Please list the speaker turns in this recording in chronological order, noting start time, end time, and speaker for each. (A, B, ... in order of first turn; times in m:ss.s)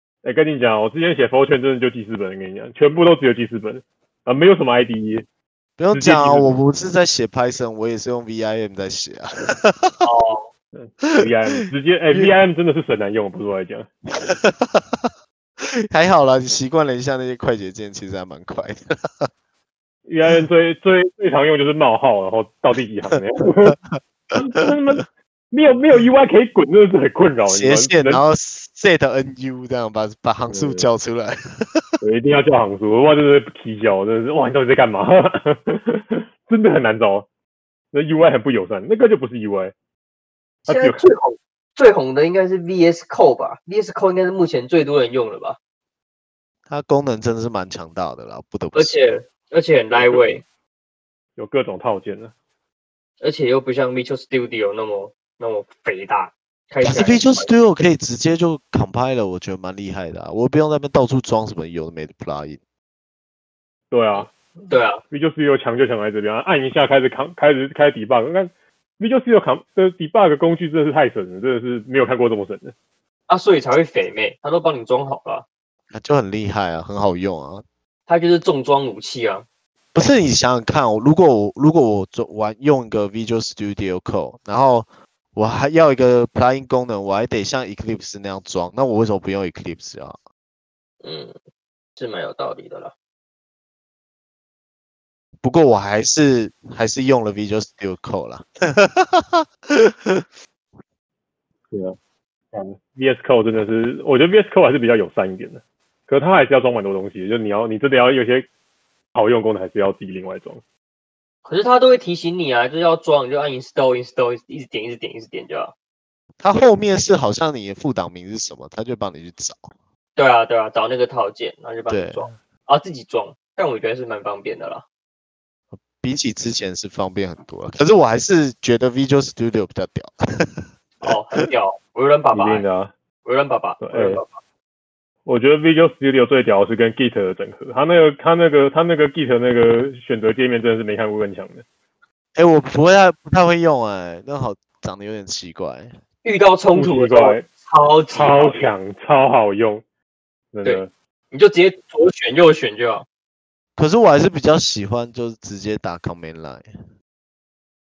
0:00.2-0:05.2 A
0:05.8-0:10.0 B
0:05.9-0:06.5 A
0:10.0-0:10.5 C
0:10.7-0:13.9 A
0:11.0-0:12.3 B
0:14.1-0:15.1 B
0:15.6-0:19.3 B
0:20.0-0:23.8 A
0:23.6-0:24.0 B
0:24.3-0:28.2 A
0:27.4-0:31.9 B
0:30.5-0:30.9 A
0:32.0-0:37.3 A
0:37.9-0:39.7 A
0:40.6-0:45.6 C
0:40.7-0:41.0 A
0:46.7-0:48.9 B
0:48.7-0:50.4 C
0:49.9-0:50.2 A
0:51.4-0:52.3 A
0:53.2-0:57.5 C
0:56.8-1:02.6 B
1:03.9-1:04.3 A
1:04.1-1:05.0 C
1:05.1-1:12.7 A
1:13.3-1:15.4 C
1:15.9-1:17.6 B
1:18.1-1:19.4 C
1:19.9-1:30.2 B
1:31.0-1:31.3 C
1:32.0-1:32.9 C
1:35.4-1:40.2 B
1:41.7-1:42.0 A
1:42.5-1:48.5 A
1:49.1-1:50.6 A
1:51.4-1:55.7 C
1:56.4-1:59.7 B
2:00.2-2:04.8 C
2:01.9-2:02.3 B
2:05.7-2:11.4 B
2:11.0-2:12.6 C
2:12.3-2:12.9 A
2:13.2-2:14.4 C
2:13.8-2:14.2 A
2:15.2-2:21.6 A
2:22.4-2:25.9 B
2:26.2-2:28.7 C
2:26.7-2:27.4 A
2:28.1-2:29.8 A
2:30.5-2:30.9 A
2:30.6-2:33.0 C
2:33.8-2:36.7 B